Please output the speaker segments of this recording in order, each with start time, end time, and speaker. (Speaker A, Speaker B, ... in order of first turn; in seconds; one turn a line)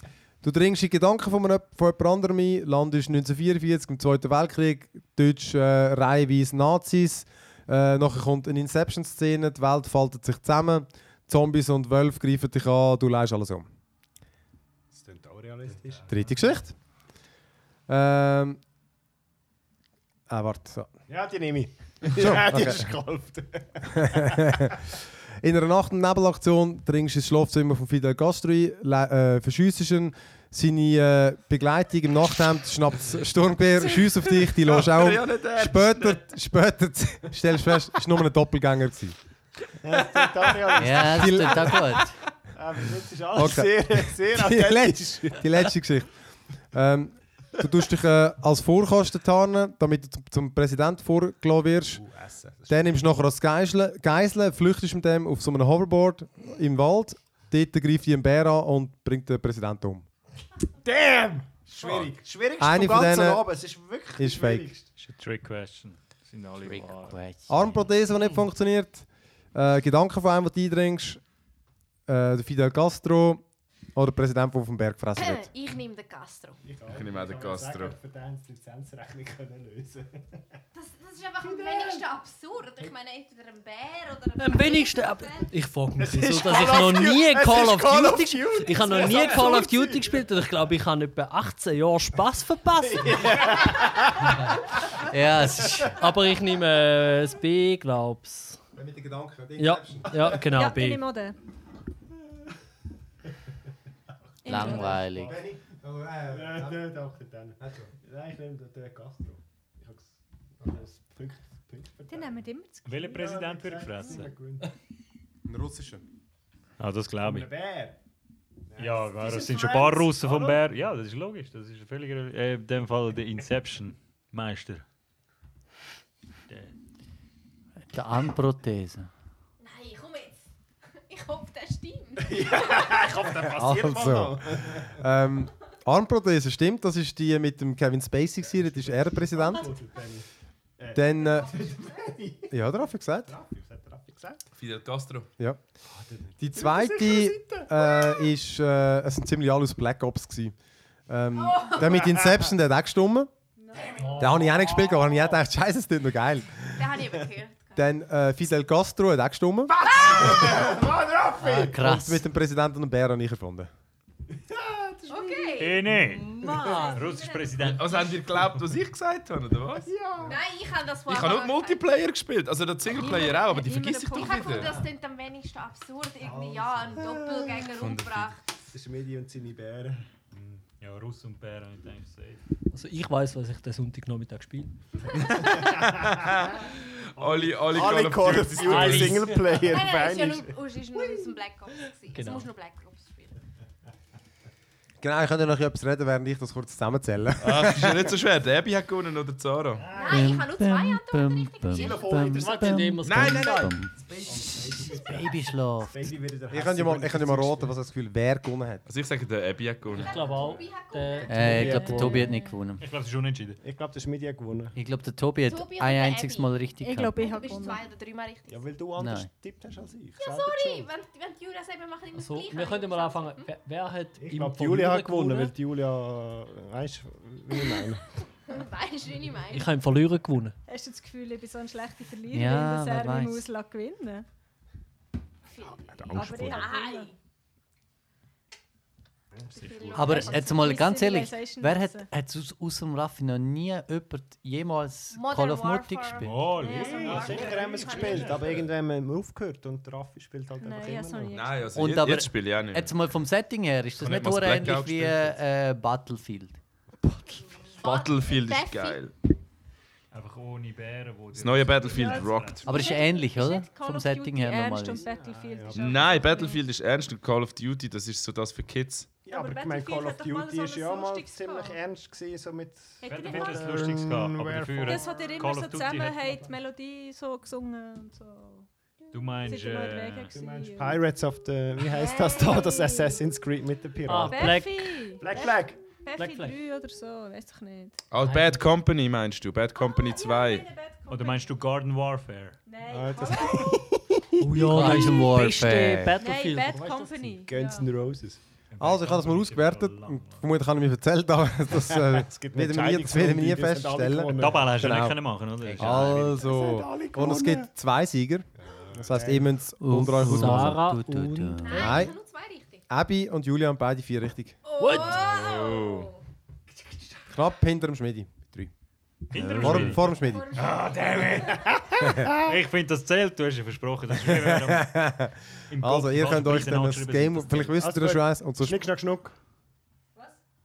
Speaker A: 0.4-13.7
Speaker B: 14.9-16.6
Speaker A: 16.1-16.7
Speaker A: 17.9-18.6
Speaker A: 20.3-20.9
Speaker B: 21.1-24.7
Speaker A: 22.1-22.9
Speaker A: 23.9-24.8
Speaker A: 25.4-39.2
Speaker C: 34.4-36.2
Speaker B: 39.8-41.8
Speaker D: 40.8-42.1
Speaker A: 41.0-42.0
Speaker B: 42.5-45.7
Speaker A: 43.3-46.1
Speaker A: 46.7-52.0
Speaker B: 51.9-53.1
Speaker A: 52.7-60.0
Speaker B: 60.8-64.9
Speaker C: 61.8-62.1
Speaker A: 62.6-63.5
Speaker A: 64.2-64.7
Speaker E: 65.0-67.2
Speaker D: 66.6-67.7
Speaker A: 67.5-71.2
Speaker A: 72.1-73.4
Speaker A: 73.9-75.5
Speaker F: 75.1-76.6
Speaker B: 76.6-80.4
Speaker C: 76.9-78.0
Speaker F: 80.7-85.5
Speaker B: 81.4-82.0
Speaker G: 84.4-93.5
Speaker B: 86.0-90.2
Speaker B: 92.9-94.3
Speaker D: 95.0-96.0
Speaker G: 95.8-98.6
Speaker A: 98.7-100.5
Speaker G: 99.6-101.0
Speaker H: 100.5-101.3
Speaker H: 104.4-105.1
Speaker D: 104.5-105.4
Speaker B: 104.5-105.4
Speaker A: 105.2-106.9
Speaker B: 106.3-112.4
Speaker A: 107.6-107.9
Speaker H: 112.1-113.0
Speaker E: 112.8-114.3
Speaker B: 113.1-114.7
Speaker A: 115.5-116.0
Speaker E: 116.8-117.5
Speaker B: 117.2-118.0
Speaker B: 118.7-120.6
Speaker E: 118.8-124.8
Speaker E: 126.5-126.7
Speaker D: 127.9-129.1
Speaker F: 129.6-130.4
Speaker F: 131.1-133.1
Speaker B: 132.2-134.9
Speaker A: 133.5-139.7
Speaker B: 138.5-140.2
Speaker B: 140.8-142.5
Speaker A: 140.9-141.5
Speaker A: 142.5-143.3
Speaker B: 143.2-144.4
Speaker C: 144.6-145.3
Speaker B: 145.9-148.2
Speaker A: 146.4-150.5
Speaker A: 151.1-153.3
Speaker F: 151.5-152.0
Speaker H: 153.6-154.3
Speaker G: 154.0-154.3
Speaker A: 154.2-156.7
Speaker B: 154.2-154.9
Speaker F: 156.8-157.8
Speaker A: 157.8-159.8
Speaker B: 159.7-161.8
Speaker F: 159.9-160.6
Speaker D: 161.4-162.2
Speaker A: 161.8-163.7
Speaker B: 164.5-165.6
Speaker F: 165.1-165.9
Speaker E: 165.6-166.4
Speaker G: 165.9-167.0
Speaker F: 166.5-167.7
Speaker E: 166.9-168.2
Speaker C: 167.6-169.9
Speaker B: 169.8-170.4
Speaker F: 170.2-171.9
Speaker C: 171.1-174.8
Speaker F: 172.9-178.4
Speaker C: 177.7-178.4
Speaker B: 178.7-180.1
Speaker E: 180.3-182.4
Speaker G: 182.7-184.7
Speaker C: 185.3-189.3
Speaker B: 187.2-190.6
Speaker G: 188.6-189.6
Speaker F: 189.7-193.3
Speaker G: 192.1-192.5
Speaker A: 195.0-198.1
Speaker C: 197.4-199.9
Speaker B: 199.8-200.4
Speaker F: 199.9-202.6
Speaker D: 200.1-204.0
Speaker B: 201.7-207.8
Speaker G: 202.6-203.7
Speaker C: 203.0-203.7
Speaker D: 204.5-206.1
Speaker A: 206.5-208.8
Speaker C: 208.9-210.1
Speaker F: 209.9-211.8
Speaker G: 210.0-212.3
Speaker D: 211.3-212.8
Speaker B: 211.6-212.2
Speaker H: 212.0-212.4
Speaker E: 212.8-213.6
Speaker B: 213.6-214.7
Speaker D: 214.7-217.2
Speaker F: 215.4-216.5
Speaker H: 216.8-217.8
Speaker F: 217.2-218.6
Speaker B: 218.5-220.9
Speaker D: 219.0-219.3
Speaker F: 220.2-223.5
Speaker G: 222.1-225.5
Speaker B: 224.2-228.0
Speaker F: 228.5-229.7
Speaker G: 229.5-230.6
Speaker H: 230.7-234.2
Speaker D: 232.3-233.4
Speaker F: 235.5-237.1
Speaker B: 235.7-236.7
Speaker H: 236.1-237.1
Speaker F: 239.5-240.6
Speaker E: 239.6-240.1
Speaker H: 239.6-242.1
Speaker D: 240.0-246.5
Speaker F: 245.1-248.4
Speaker E: 246.2-248.7
Speaker B: 246.7-251.4
Speaker H: 250.6-251.8
Speaker C: 251.3-252.9
Speaker D: 251.7-256.6
Speaker C: 253.9-255.4
Speaker F: 257.7-259.0
Speaker C: 257.8-259.1
Speaker E: 260.1-262.9
Speaker C: 261.3-262.6
Speaker H: 261.9-266.6
Speaker D: 262.6-265.1
Speaker B: 265.0-266.1
Speaker C: 265.7-269.1
Speaker B: 269.2-275.5
Speaker H: 269.3-271.8
Speaker H: 273.0-273.8
Speaker E: 273.0-276.3
Speaker H: 274.8-278.7
Speaker E: 279.1-280.4
Speaker H: 279.4-281.0
Speaker B: 280.3-284.6
Speaker H: 281.8-283.2
Speaker G: 284.1-285.2
Speaker H: 284.2-288.0
Speaker B: 285.2-285.8
Speaker G: 286.1-286.5
Speaker C: 288.1-290.7
Speaker G: 288.2-288.6
Speaker H: 289.8-291.6
Speaker E: 291.1-292.6
Speaker H: 292.6-293.8
Speaker B: 292.9-294.2
Speaker G: 294.4-297.3
Speaker D: 294.5-296.2
Speaker H: 296.2-297.9
Speaker F: 296.4-296.7
Speaker B: 297.4-298.4
Speaker E: 298.7-300.4
Speaker A: 298.8-310.8
Speaker B: 301.7-304.8
Speaker E: 304.3-306.4
Speaker D: 305.6-306.4
Speaker B: 306.1-307.7
Speaker B: 308.6-309.5
Speaker D: 309.8-312.0
Speaker G: 310.2-311.6
Speaker F: 311.6-312.8
Speaker A: 311.8-312.1
Speaker A: 312.9-314.6
Speaker F: 314.6-316.1
Speaker G: 314.8-315.2
Speaker C: 315.1-316.1
Speaker A: 317.3-318.7
Speaker E: 319.3-320.1
Speaker D: 319.4-319.8
Speaker A: 319.5-320.5
Speaker H: 320.1-320.9
Speaker B: 320.6-322.5
Speaker E: 320.7-321.5
Speaker H: 321.4-321.7
Speaker E: 322.4-325.1
Speaker A: 324.2-328.9
Speaker E: 325.7-327.9
Speaker B: 327.8-329.3